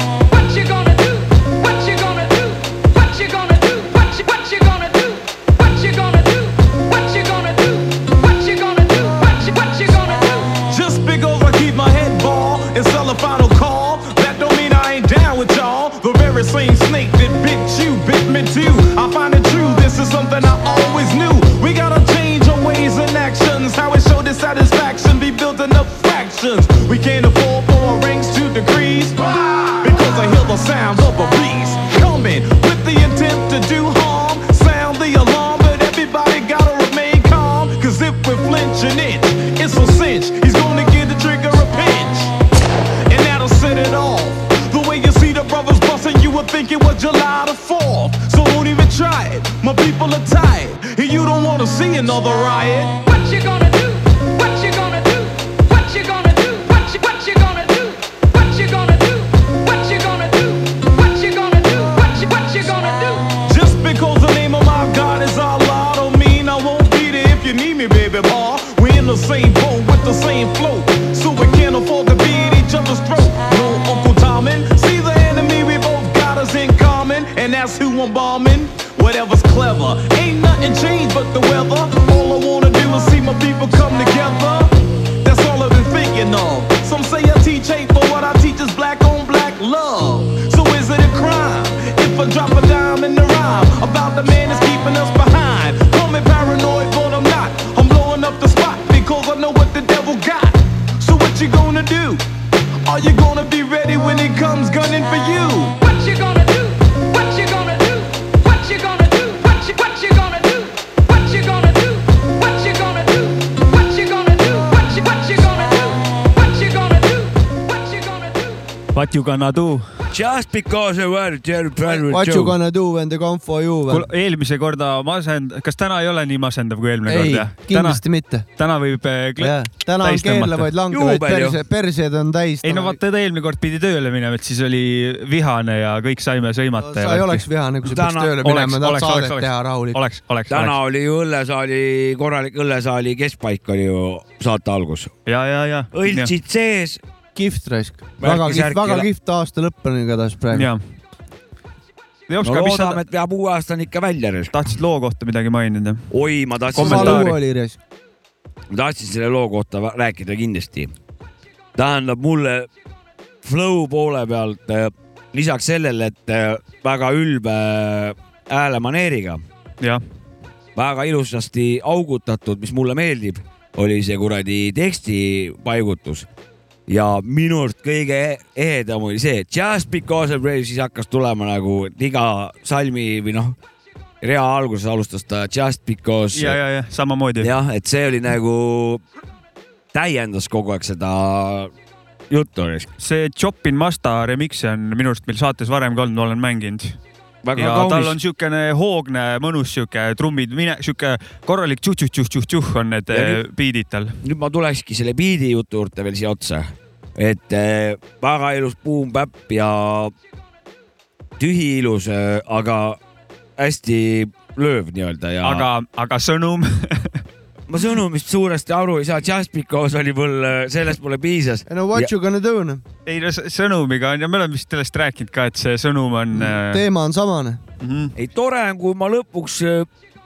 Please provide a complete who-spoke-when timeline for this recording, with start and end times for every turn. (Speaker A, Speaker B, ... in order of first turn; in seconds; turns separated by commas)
Speaker A: 0.3-10.6, Speaker B: 10.6-29.2, Speaker B: 29.8-42.3, Speaker B: 43.1-52.9, Speaker A: 53.0-63.4, Speaker B: 63.4-102.2, Speaker B: 102.8-105.7, Speaker A: 105.8-118.7, Speaker C: 118.9-119.9, Speaker D: 120.1-122.5, Speaker E: 121.9-124.1, Speaker C: 123.9-128.0, Speaker E: 127.0-128.4, Speaker C: 128.6-130.7, Speaker E: 129.4-133.0, Speaker D: 130.9-131.6, Speaker C: 132.6-137.4, Speaker E: 136.8-140.0, Speaker D: 137.8-138.4, Speaker C: 138.4-140.8, Speaker D: 140.5-145.1, Speaker C: 145.2-146.3, Speaker D: 145.9-147.0, Speaker E: 147.3-150.7, Speaker D: 148.2-149.1, Speaker C: 150.5-150.8, Speaker C: 152.3-153.0, Speaker D: 152.4-154.5, Speaker C: 154.5-156.1, Speaker D: 156.1-157.3, Speaker C: 156.7-157.4, Speaker E: 156.8-157.8, Speaker D: 158.7-160.9, Speaker D: 161.8-162.7, Speaker D: 163.4-169.4, Speaker D: 170.8-176.3, Speaker D: 176.9-183.6, Speaker D: 184.2-186.6, Speaker C: 186.3-187.5, Speaker D: 187.4-189.0, Speaker D: 189.9-191.7, Speaker D: 192.3-192.9, Speaker C: 193.0-197.0, Speaker D: 197.4-198.2, Speaker C: 197.6-204.2, Speaker D: 203.1-203.4, Speaker D: 204.2-210.1, Speaker D: 211.4-213.0, Speaker D: 213.6-215.7, Speaker C: 215.4-217.2, Speaker D: 217.7-222.1, Speaker E: 221.7-222.8, Speaker C: 223.1-226.8, Speaker E: 226.3-227.6, Speaker C: 227.8-228.1, Speaker D: 228.2-229.9